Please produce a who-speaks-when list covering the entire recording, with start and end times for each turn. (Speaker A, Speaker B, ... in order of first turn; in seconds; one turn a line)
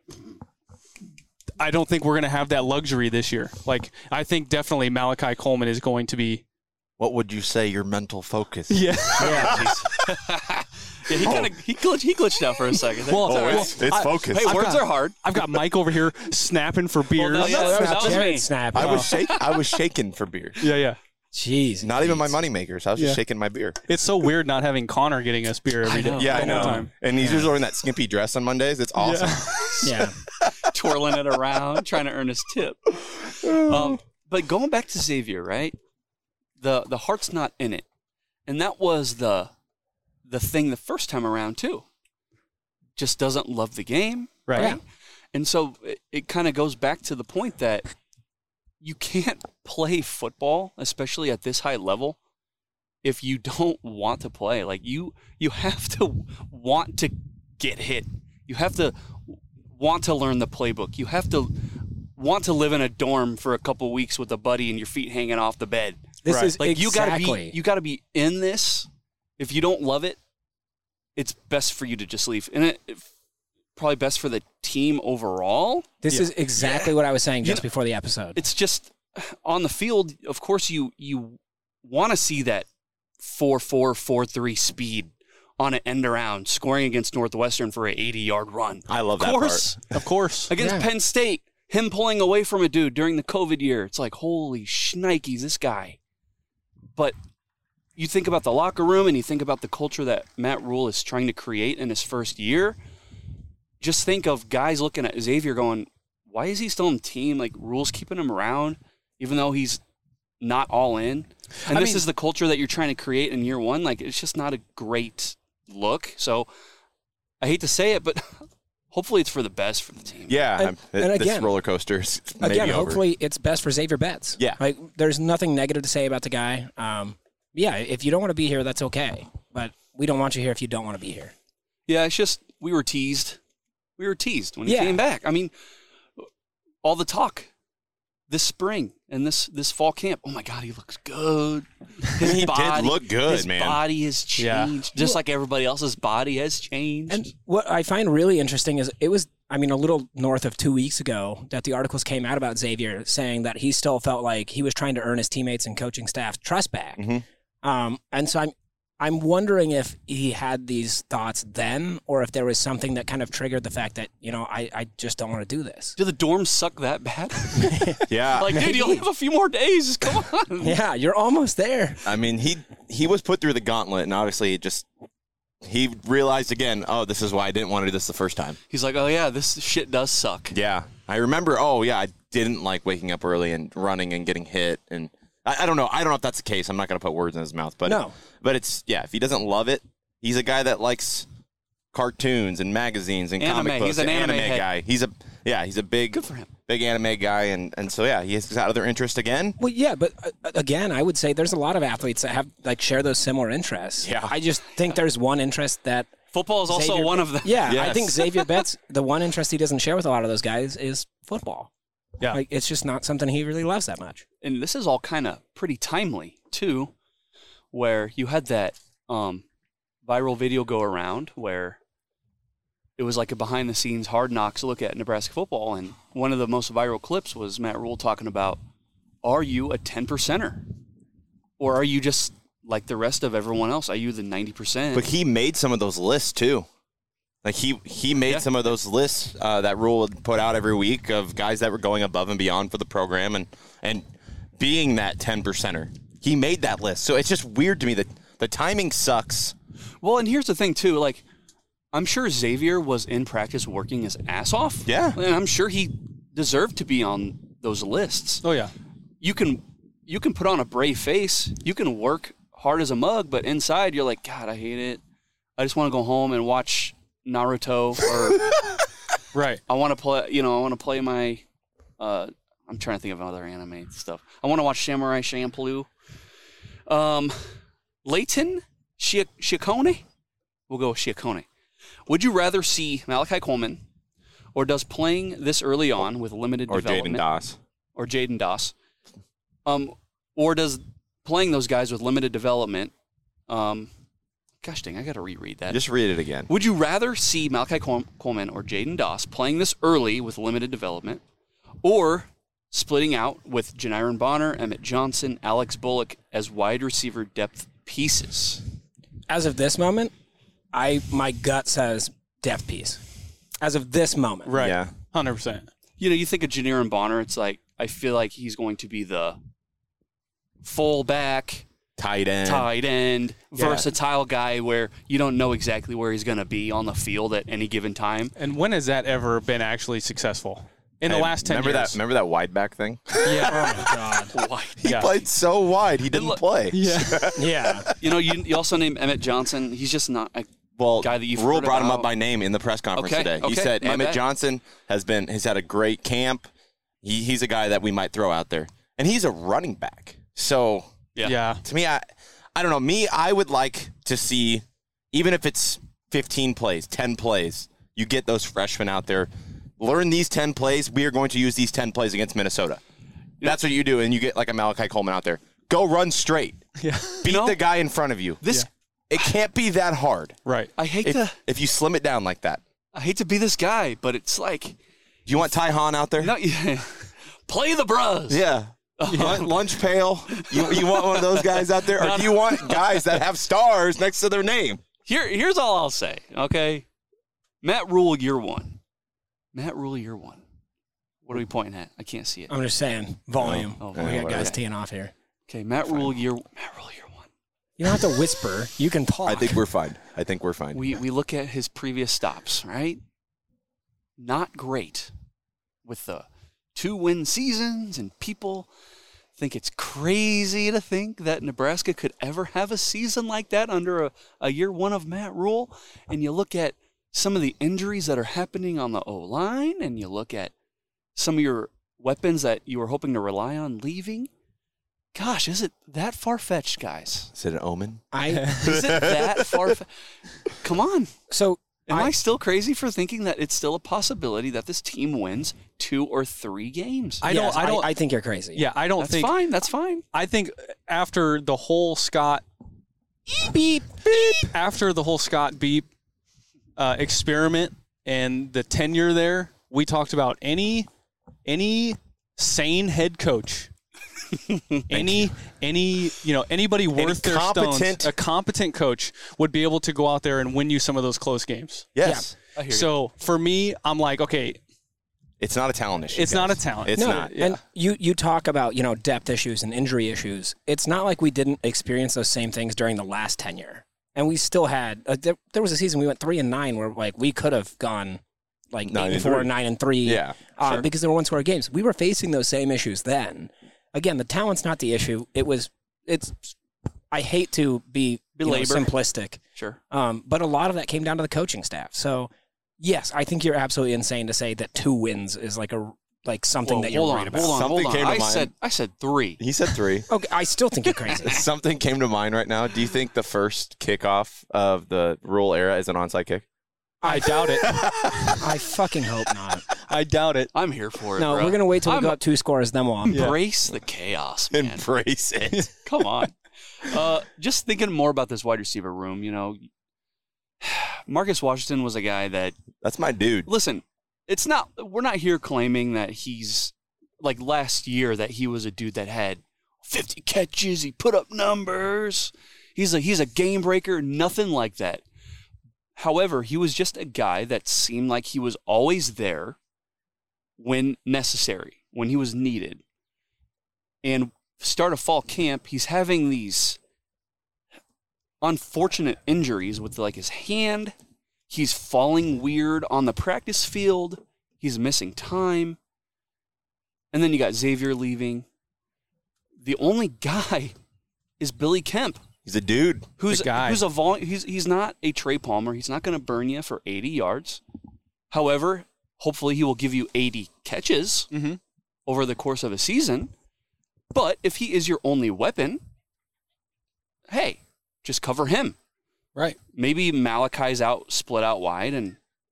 Speaker A: 1.6-6.4
Speaker B: 7.0-9.8
Speaker A: 8.7-9.5
Speaker C: 9.2-9.6
Speaker D: 9.3-15.2
Speaker B: 11.1-11.5
Speaker A: 13.1-19.1
Speaker B: 13.2-14.6
Speaker D: 17.1-18.7
Speaker C: 17.4-19.1
Speaker B: 17.6-20.6
Speaker D: 19.2-19.6
Speaker A: 20.6-21.0
Speaker C: 21.3-22.3
Speaker B: 21.8-23.8
Speaker A: 23.9-26.9
Speaker D: 25.8-26.6
Speaker B: 26.1-30.5
Speaker C: 26.3-27.4
Speaker A: 29.0-29.7
Speaker C: 29.8-30.1
Speaker D: 30.6-35.8
Speaker B: 33.5-33.8
Speaker D: 36.6-37.9
Speaker D: 38.5-39.5
Speaker D: 40.2-41.9
Speaker D: 43.0-44.8
Speaker A: 44.5-44.8
Speaker D: 45.3-47.9
Speaker D: 48.8-52.2
Speaker D: 53.0-68.9
Speaker C: 66.2-67.5
Speaker A: 66.3-66.5
Speaker D: 69.4-70.2
Speaker D: 71.2-73.1
Speaker D: 73.8-75.9
Speaker C: 76.0-78.4
Speaker D: 76.6-77.7
Speaker D: 78.3-82.7
Speaker D: 83.2-89.9
Speaker B: 88.9-89.7
Speaker A: 89.9-90.5
Speaker D: 90.5-96.0
Speaker C: 90.6-90.9
Speaker D: 98.0-102.8
Speaker D: 103.8-109.8
Speaker D: 110.4-116.5
Speaker D: 117.4-120.4
Speaker B: 120.3-123.0
Speaker C: 120.6-121.5
Speaker C: 122.4-131.3
Speaker D: 131.9-133.4
Speaker D: 134.0-135.5
Speaker C: 134.7-135.0
Speaker D: 136.8-137.5
Speaker D: 138.3-147.3
Speaker B: 142.2-143.8
Speaker A: 144.4-144.7
Speaker C: 147.1-157.0
Speaker B: 157.0-157.2
Speaker C: 157.6-165.9
Speaker D: 166.0-170.8
Speaker C: 167.5-169.0
Speaker B: 168.1-168.5
Speaker C: 170.6-172.1
Speaker B: 172.0-174.9
Speaker B: 175.6-178.6
Speaker D: 178.7-180.5
Speaker B: 180.5-191.3
Speaker C: 187.8-188.1
Speaker B: 191.9-199.6
Speaker D: 193.4-194.7
Speaker D: 196.1-196.5
Speaker C: 199.6-206.1
Speaker B: 204.0-204.4
Speaker D: 206.3-208.2
Speaker C: 206.7-211.7
Speaker B: 207.6-208.1
Speaker C: 212.3-214.2
Speaker D: 214.4-216.9
Speaker D: 217.7-219.4
Speaker D: 220.0-221.8
Speaker D: 223.0-228.6
Speaker D: 229.2-230.6
Speaker D: 231.6-235.1
Speaker B: 234.9-236.7
Speaker B: 237.4-244.1
Speaker B: 244.6-249.5
Speaker D: 250.0-251.2
Speaker D: 251.9-258.4
Speaker B: 254.8-255.2
Speaker A: 258.4-258.7
Speaker D: 259.2-265.0
Speaker D: 265.6-268.5
Speaker A: 269.3-269.6
Speaker D: 269.7-271.4
Speaker D: 272.0-275.9
Speaker D: 276.9-277.5
Speaker D: 278.0-280.0
Speaker D: 280.7-281.4
Speaker D: 282.1-283.8
Speaker D: 284.5-287.2
Speaker B: 286.7-287.6
Speaker D: 287.9-288.7
Speaker D: 289.6-292.9
Speaker D: 293.5-293.9
Speaker D: 294.6-295.8
Speaker B: 295.7-296.5
Speaker D: 296.5-301.2
Speaker D: 301.8-308.6
Speaker C: 309.3-310.1
Speaker C: 310.7-313.0
Speaker C: 313.6-314.5
Speaker A: 314.5-315.7
Speaker B: 314.5-314.9
Speaker D: 316.0-319.4
Speaker D: 320.6-321.6
Speaker B: 322.0-322.7
Speaker D: 322.4-328.3
Speaker A: 328.4-332.0
Speaker B: 331.1-333.8
Speaker A: 333.2-333.7
Speaker C: 333.4-334.3
Speaker D: 334.3-334.8
Speaker B: 334.8-337.9
Speaker A: 334.8-335.1
Speaker D: 336.1-336.4
Speaker A: 336.7-337.3
Speaker C: 337.3-337.9
Speaker D: 338.0-340.5
Speaker B: 340.8-346.5
Speaker D: 341.0-342.1
Speaker D: 342.9-344.2
Speaker B: 347.0-350.9
Speaker A: 351.2-351.6
Speaker B: 351.6-362.8
Speaker B: 363.4-366.7
Speaker A: 366.8-367.2
Speaker B: 367.2-370.4
Speaker D: 367.2-367.6
Speaker A: 370.4-370.7
Speaker D: 370.8-371.4
Speaker B: 371.0-372.6
Speaker D: 372.9-374.8
Speaker B: 375.3-376.3
Speaker D: 376.2-378.4
Speaker B: 378.3-384.8
Speaker D: 379.0-379.5
Speaker A: 379.1-379.5
Speaker D: 380.3-383.2
Speaker D: 385.1-386.8
Speaker D: 387.6-388.8
Speaker D: 389.5-390.4
Speaker D: 391.2-392.5
Speaker C: 392.5-395.1
Speaker B: 393.4-394.5
Speaker D: 393.8-394.6
Speaker D: 395.5-397.3
Speaker C: 397.8-399.6
Speaker B: 399.2-400.9
Speaker D: 400.7-403.0
Speaker D: 404.2-405.1
Speaker D: 405.8-408.7
Speaker D: 409.4-420.5
Speaker D: 421.1-424.3
Speaker D: 425.1-427.3
Speaker B: 427.3-429.8
Speaker C: 428.1-428.6
Speaker D: 428.6-429.9
Speaker D: 430.6-431.1
Speaker C: 431.3-432.1
Speaker D: 431.9-437.2
Speaker A: 437.2-437.9
Speaker C: 437.2-438.7
Speaker A: 438.5-439.3
Speaker D: 439.0-440.0
Speaker A: 440.1-442.4
Speaker A: 443.4-445.9
Speaker A: 446.8-450.9
Speaker A: 451.4-453.7
Speaker D: 454.5-454.8
Speaker A: 454.9-461.9
Speaker B: 456.9-458.1
Speaker B: 461.9-462.3
Speaker C: 462.0-462.2
Speaker D: 462.6-462.9
Speaker A: 462.7-464.6
Speaker B: 465.4-467.3
Speaker A: 466.1-467.6
Speaker C: 466.9-478.2
Speaker C: 478.7-486.5
Speaker B: 478.9-480.9
Speaker C: 487.1-489.4
Speaker D: 488.4-488.9
Speaker C: 489.9-497.6
Speaker D: 496.6-499.4
Speaker B: 497.4-498.5
Speaker B: 499.4-500.1
Speaker C: 500.1-501.4
Speaker B: 501.1-506.4
Speaker C: 507.0-507.7
Speaker A: 507.1-507.8
Speaker B: 507.6-508.4
Speaker C: 508.4-509.7
Speaker A: 509.9-510.5
Speaker D: 510.5-512.2
Speaker C: 511.2-513.3
Speaker D: 513.1-514.8
Speaker A: 513.1-513.4
Speaker B: 514.5-515.7
Speaker D: 515.8-519.6
Speaker D: 520.6-522.6
Speaker B: 522.8-523.5
Speaker D: 523.5-535.0
Speaker D: 536.0-539.6
Speaker D: 540.6-542.8
Speaker D: 544.0-546.8
Speaker D: 548.4-550.9
Speaker D: 551.5-555.8
Speaker D: 557.1-558.5
Speaker D: 559.6-560.7
Speaker D: 561.4-562.2
Speaker B: 562.5-563.1
Speaker D: 563.2-567.6
Speaker A: 563.3-563.8
Speaker D: 568.3-571.3
Speaker A: 571.3-571.6
Speaker D: 572.0-573.3
Speaker D: 574.1-575.8
Speaker D: 577.3-578.8
Speaker D: 579.7-582.2